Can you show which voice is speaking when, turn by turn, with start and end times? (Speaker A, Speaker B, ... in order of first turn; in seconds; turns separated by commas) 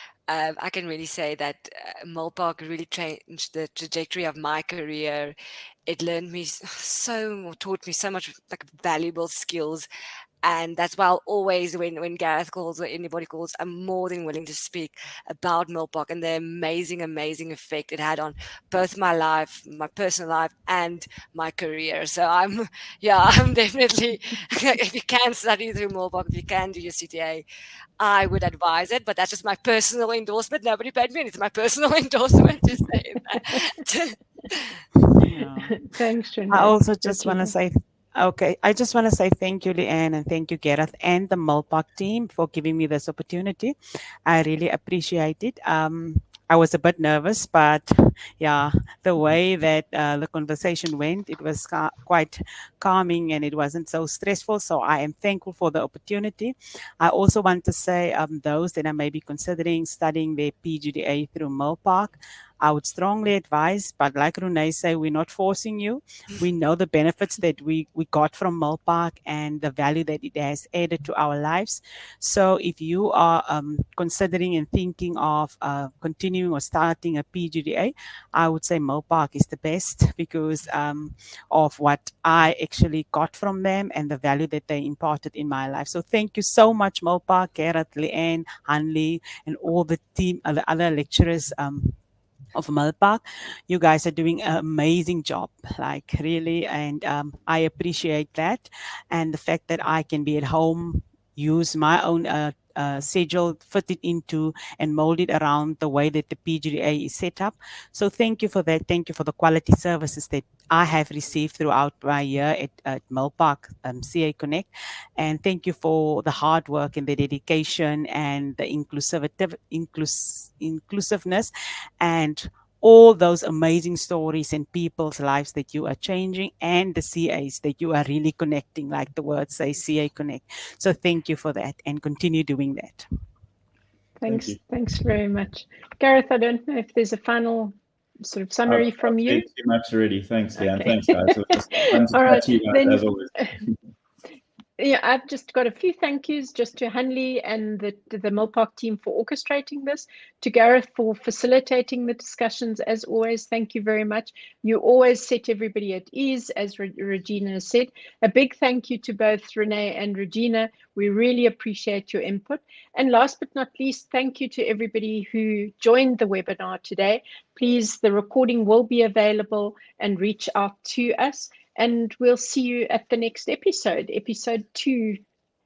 Speaker A: 0.3-5.4, Speaker A: 5.9-9.9, Speaker A: 10.4-27.4, Speaker A: 28.0-34.8, Speaker B: 35.0-35.8, Speaker C: 35.7-37.5, Speaker B: 36.5-43.8, Speaker B: 44.3-92.0, Speaker B: 92.5-133.1, Speaker C: 134.2-139.5, Speaker D: 134.3-134.6, Speaker D: 138.7-143.8, Speaker C: 140.6-143.6, Speaker C: 144.8-175.2